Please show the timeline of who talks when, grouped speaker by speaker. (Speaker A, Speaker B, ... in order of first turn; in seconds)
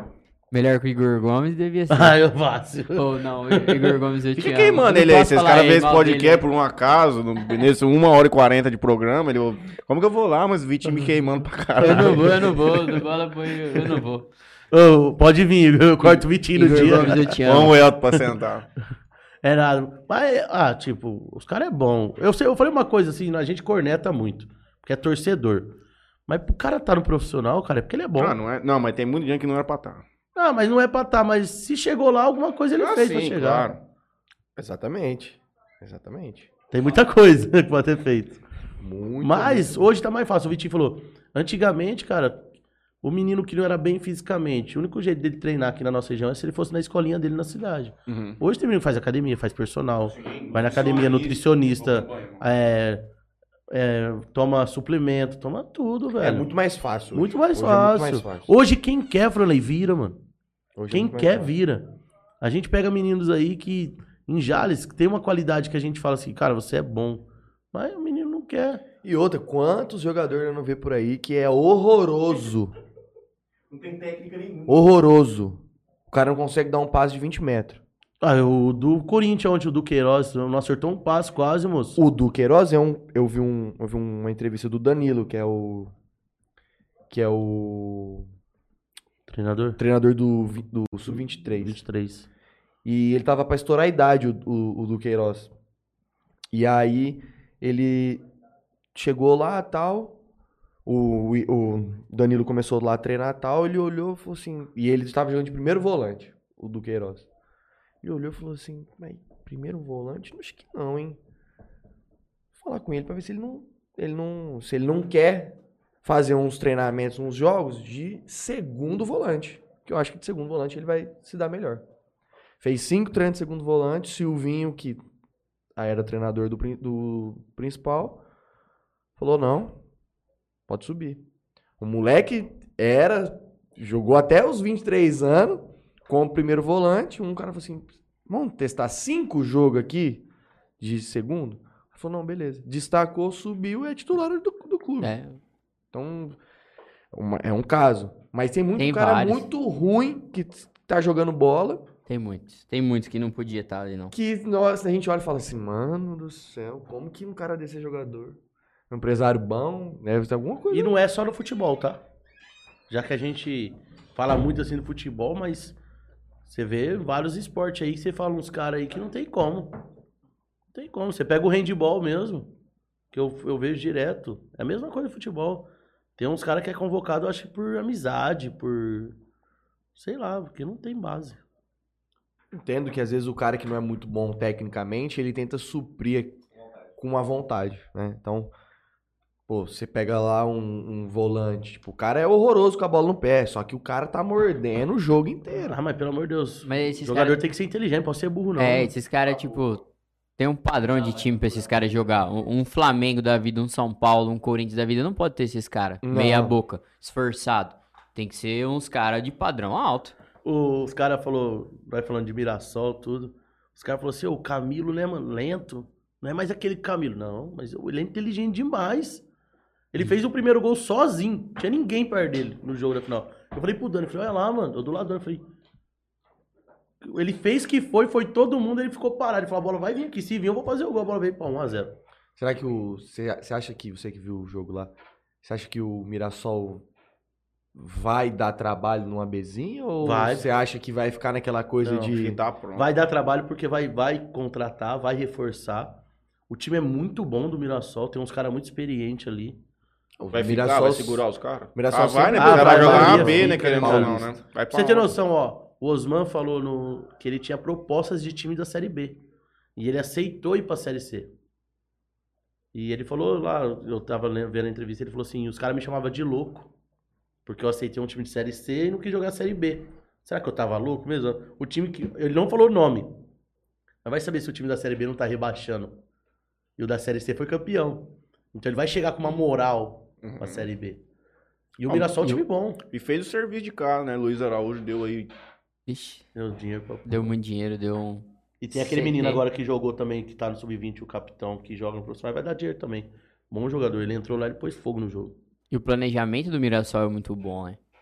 Speaker A: 0.5-2.2, 3.0-6.4, 11.8-14.3, 16.0-17.8, 145.0-145.4, 148.8-149.5, 152.1-154.1, 196.6-197.4, 198.6-199.8, 200.4-210.2, 285.9-286.2, 287.1-289.4, 295.7-297.8
Speaker B: 1.9-3.9, 11.8-12.4, 14.7-17.3, 19.4-25.8, 26.3-28.4, 30.4-33.7, 36.7-38.4, 39.2-42.4, 43.0-53.0, 53.7-56.5, 57.1-60.2, 60.9-61.9, 62.4-68.8, 78.2-82.0, 89.3-89.8, 91.1-92.3, 160.7-162.0, 162.9-165.8, 166.5-169.7, 170.7-172.5, 173.1-179.2, 179.9-181.4, 195.6-198.9, 210.4-219.2, 219.9-225.4, 227.0-231.9, 240.0-240.4, 241.8-242.1, 242.8-249.6, 252.3-259.2, 259.8-261.3, 262.7-266.7, 267.4-273.2, 274.0-276.0, 276.8-281.0, 281.8-282.8, 286.3-287.2, 288.6-295.3
Speaker C: 4.4-12.6, 17.4-18.7, 28.1-30.0, 32.7-33.8, 48.1-48.4, 50.0-52.4, 242.1-242.9, 250.3-255.1, 280.2-280.6, 281.9-285.3
Speaker D: 34.5-36.5, 38.8-39.9, 56.2-58.5, 60.8-61.5, 69.0-72.7, 74.7-77.8, 82.0-85.9, 87.1-88.3, 89.8-91.8, 92.8-95.5, 96.5-98.2, 98.9-100.2, 100.8-107.3, 108.0-111.2, 112.5-121.8, 122.6-125.0, 125.8-128.2, 129.2-129.8, 130.7-131.2, 131.8-140.2, 140.8-145.1, 145.9-146.4, 147.1-151.8, 154.1-158.4, 158.9-161.0, 182.5-186.4, 187.0-188.5, 189.5-195.8, 206.0-206.6, 232.4-236.8, 237.7-242.4, 250.2-251.2, 251.7-254.3
Speaker E: 73.7-74.9, 186.5-186.9, 200.9-201.7